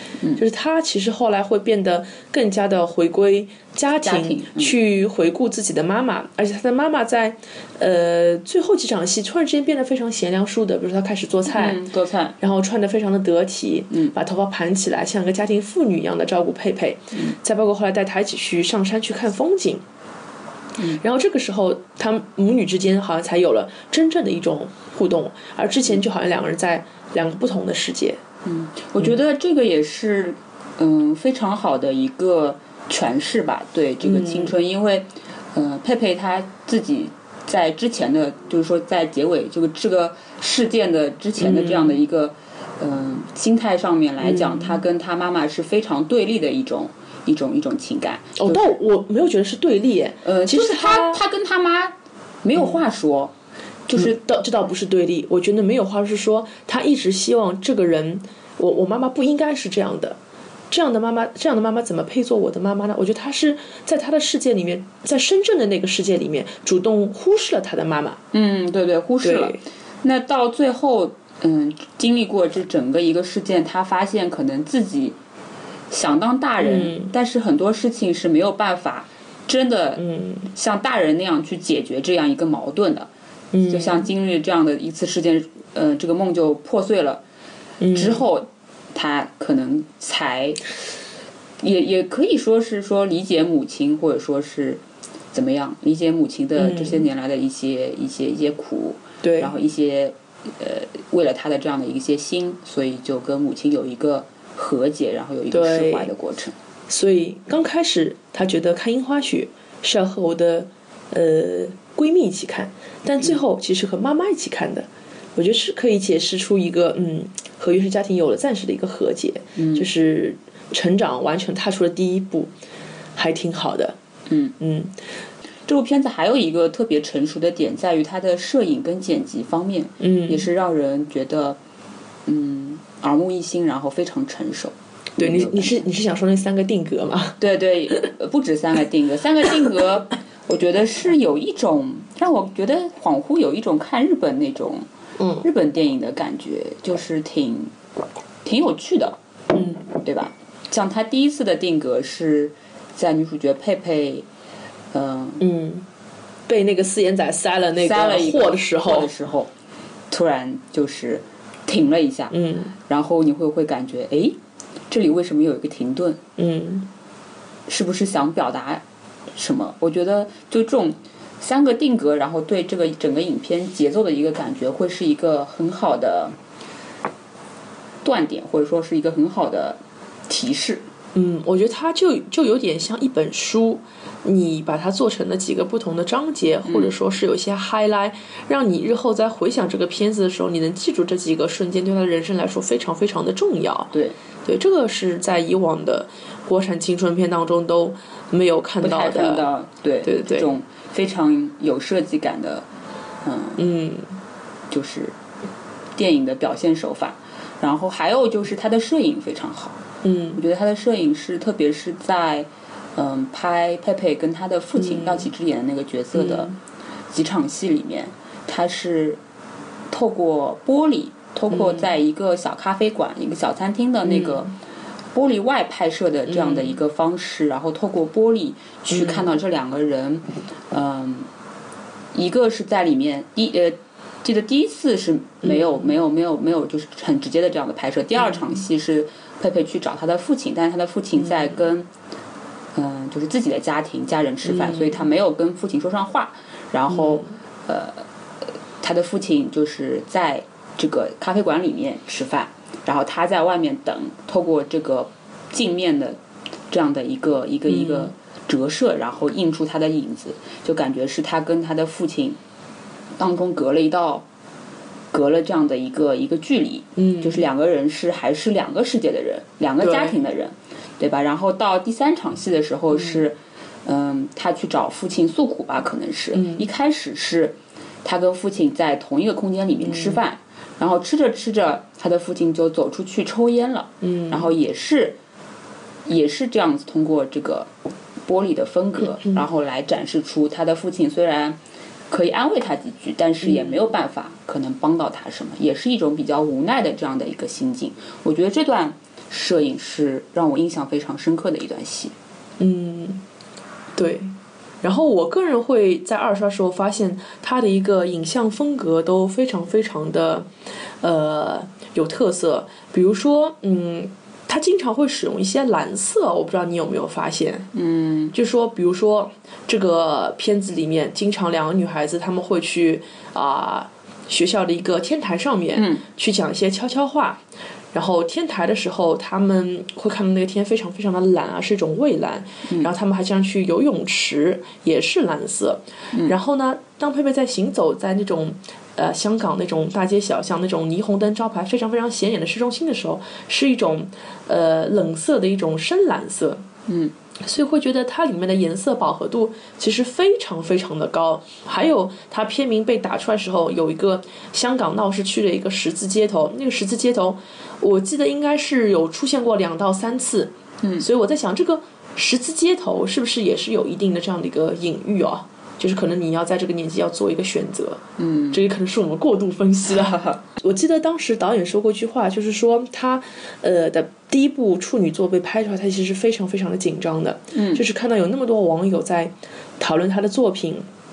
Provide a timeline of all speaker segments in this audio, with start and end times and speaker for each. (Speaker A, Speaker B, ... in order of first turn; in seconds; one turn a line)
Speaker A: 0.3-11.8
Speaker B: 4.0-4.8
Speaker B: 11.5-12.3
Speaker A: 12.4-19.8
Speaker A: 21.0-28.2
Speaker B: 28.4-48.7
Speaker A: 34.0-34.5
Speaker A: 41.4-41.9
Speaker A: 44.2-44.7
Speaker A: 48.4-51.2
Speaker B: 50.2-53.3
Speaker B: 53.9-54.2
Speaker A: 54.0-60.2
Speaker A: 60.7-68.2
Speaker B: 68.3-75.2
Speaker A: 69.2-69.6
Speaker B: 75.9-83.1
Speaker A: 76.6-77.1
Speaker A: 80.0-80.4
Speaker A: 83.5-84.0
Speaker B: 83.6-87.2
Speaker A: 87.8-88.2
Speaker B: 87.9-90.6
Speaker B: 91.6-94.8
Speaker B: 95.3-106.5
Speaker A: 96.6-97.0
Speaker A: 99.2-99.5
Speaker A: 105.5-106.1
Speaker A: 106.9-122.5
Speaker B: 119.6-119.9
Speaker A: 123.2-124.0
Speaker B: 124.3-124.5
Speaker A: 124.6-124.9
Speaker B: 125.7-131.6
Speaker A: 130.0-130.4
Speaker B: 132.3-135.8
Speaker A: 135.2-137.4
Speaker B: 137.4-144.8
Speaker A: 145.2-145.4
Speaker B: 145.4-147.7
Speaker B: 148.4-154.2
Speaker B: 154.9-155.4
Speaker A: 155.4-155.8
Speaker A: 156.5-159.1
Speaker B: 157.8-159.5
Speaker B: 160.1-164.4
Speaker A: 162.3-162.7
Speaker B: 164.9-166.2
Speaker A: 166.4-166.9
Speaker B: 167.7-168.8
Speaker B: 169.3-176.3
Speaker B: 178.0-180.8
Speaker A: 181.1-193.9
Speaker B: 186.6-186.9
Speaker A: 194.4-199.4
Speaker B: 198.8-202.6
Speaker A: 200.0-200.5
Speaker B: 203.2-203.6
Speaker A: 203.6-204.1
Speaker B: 204.7-205.1
Speaker B: 206.0-209.8
Speaker A: 210.0-210.4
Speaker B: 210.3-216.5
Speaker A: 214.8-215.2
Speaker A: 216.2-216.5
Speaker B: 217.1-219.2
Speaker B: 219.9-224.5
Speaker B: 225.1-231.3
Speaker A: 228.9-229.2
Speaker B: 232.1-241.9
Speaker A: 235.4-235.7
Speaker B: 242.7-248.0
Speaker A: 244.5-244.9
Speaker A: 246.9-247.2
Speaker B: 248.8-256.2
Speaker B: 256.7-262.4
Speaker A: 257.7-258.1
Speaker B: 263.2-264.2
Speaker B: 265.1-285.2
Speaker A: 267.0-267.4
Speaker A: 269.8-270.1
Speaker A: 276.3-276.6
Speaker A: 279.9-280.2
Speaker A: 284.0-284.4
Speaker B: 286.1-287.7
Speaker B: 288.3-291.6
Speaker B: 292.1-302.1
Speaker A: 302.6-303.2
Speaker A: 303.9-310.5
Speaker A: 311.0-317.7
Speaker B: 317.7-318.3
Speaker A: 318.3-346.6
Speaker B: 325.7-326.0
Speaker B: 346.9-347.1
Speaker A: 347.4-380.9
Speaker B: 368.2-368.6
Speaker B: 370.1-370.4
Speaker B: 377.5-377.8